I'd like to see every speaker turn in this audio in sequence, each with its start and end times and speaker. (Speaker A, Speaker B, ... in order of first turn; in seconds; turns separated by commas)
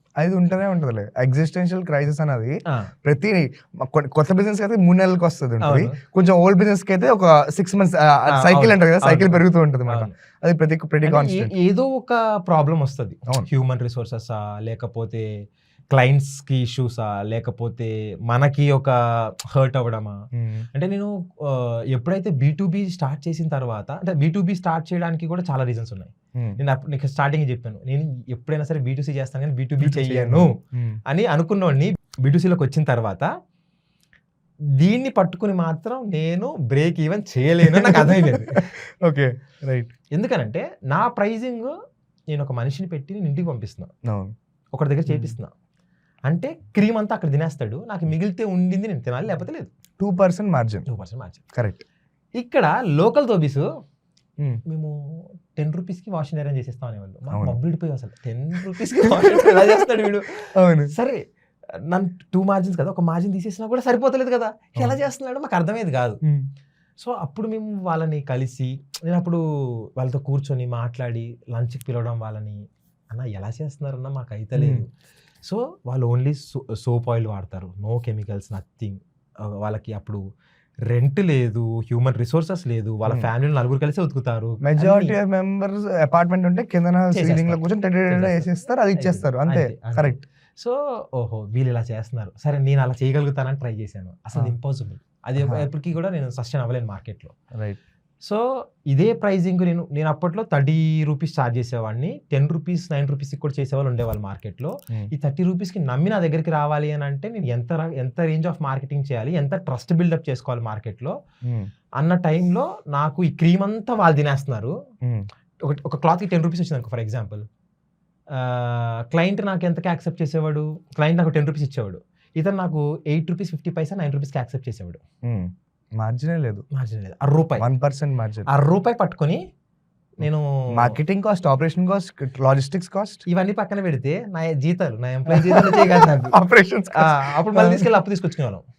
Speaker A: 0.2-11.5, Speaker B: 5.6-6.0, Speaker B: 8.3-10.1, Speaker B: 11.0-15.3, Speaker B: 15.9-20.2, Speaker A: 20.3-20.6, Speaker B: 20.7-30.5, Speaker A: 29.8-31.0, Speaker B: 31.1-33.3, Speaker B: 34.8-38.7, Speaker A: 37.6-39.9, Speaker B: 40.1-41.7, Speaker B: 42.3-43.9, Speaker A: 44.0-44.3, Speaker B: 44.7-45.5, Speaker A: 45.1-45.4, Speaker B: 46.3-49.7, Speaker A: 50.0-50.9, Speaker B: 50.9-51.4, Speaker A: 51.5-51.8, Speaker B: 52.4-53.7, Speaker B: 54.7-61.2, Speaker A: 57.3-57.6, Speaker A: 59.2-59.8, Speaker A: 60.5-60.9, Speaker B: 61.9-66.2, Speaker B: 67.0-72.6, Speaker B: 73.1-74.9, Speaker A: 74.5-74.8, Speaker B: 75.5-80.2, Speaker B: 80.9-85.1, Speaker A: 84.6-90.2, Speaker B: 87.1-97.3, Speaker A: 95.4-95.7, Speaker A: 97.5-97.8, Speaker B: 98.2-111.1, Speaker B: 112.0-114.7, Speaker B: 115.6-117.4, Speaker B: 118.3-125.0, Speaker A: 125.2-126.6, Speaker B: 126.7-127.7, Speaker A: 127.6-128.5, Speaker B: 128.5-129.4, Speaker B: 130.2-131.0, Speaker A: 130.7-133.2, Speaker B: 133.3-136.3, Speaker A: 135.3-137.9, Speaker B: 136.9-138.6